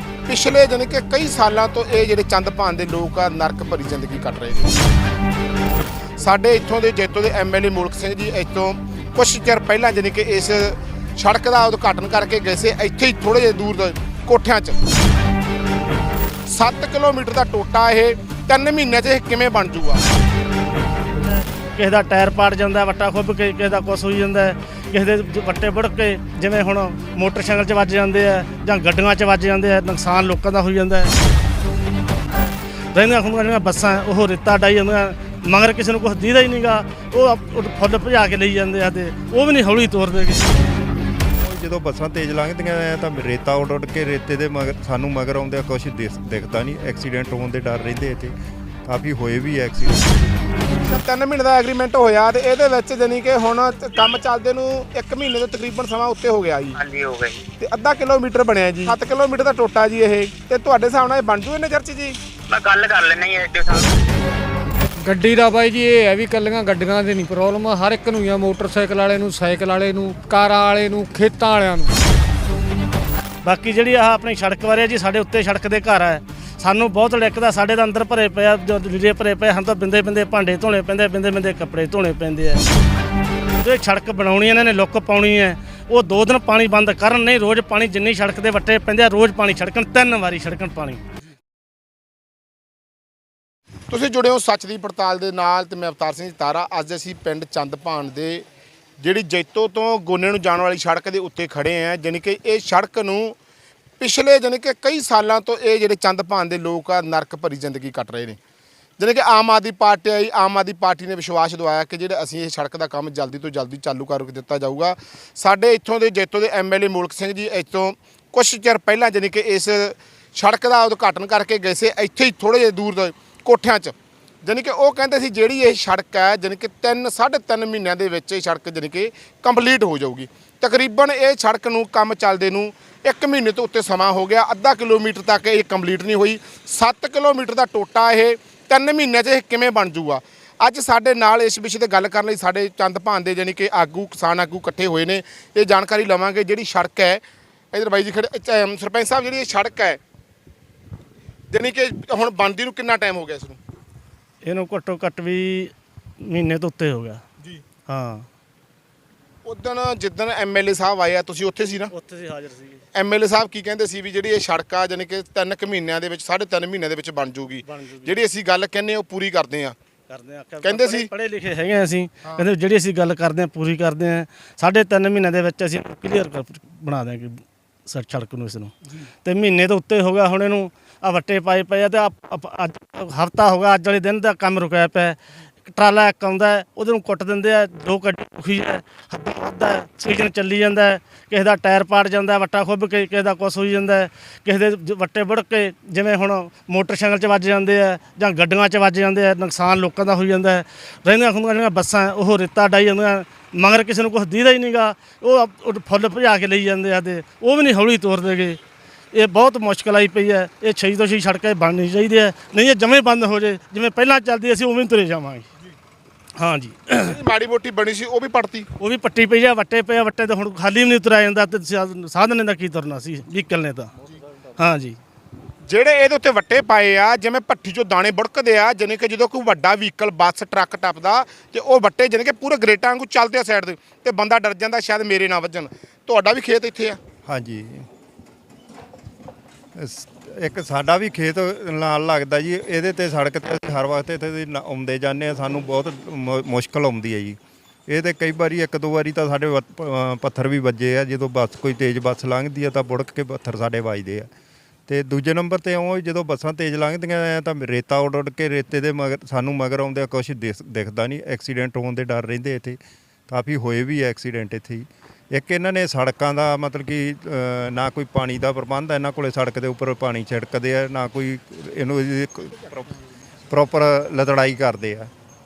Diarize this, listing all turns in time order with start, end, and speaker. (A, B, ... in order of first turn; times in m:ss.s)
0:00.2-0:04.7 A
0:06.2-0:14.8 A
0:16.5-0:20.0 A
0:21.7-0:31.1 B
0:32.9-0:40.6 B
0:41.3-0:50.2 C
0:50.8-0:56.8 A
0:56.7-0:57.4 D
0:57.6-1:02.2 A
1:02.5-1:04.2 D
1:05.0-1:11.9 E
1:13.4-1:22.6 B
1:23.6-1:31.0 B
1:33.9-1:38.4 A
1:39.0-1:43.4 A
1:44.0-1:48.4 A
1:49.0-2:30.0 A
2:31.5-2:33.6 A
2:34.4-2:37.2 B
2:37.9-2:38.2 B
2:39.4-2:41.9 A
2:41.9-2:42.8 B
2:42.9-2:49.8 A
2:47.6-2:48.2 B
2:50.1-2:58.7 B
2:50.6-2:51.1 A
2:59.2-3:28.6 B
3:29.1-3:35.5 B
3:36.4-3:37.1 B
3:37.0-3:38.7 A
3:38.8-3:43.9 B
3:44.6-3:45.0 B
3:45.6-3:57.0 A
3:57.2-3:57.9 C
3:59.7-4:14.3 C
4:14.9-4:32.9 C
4:33.5-4:35.1 C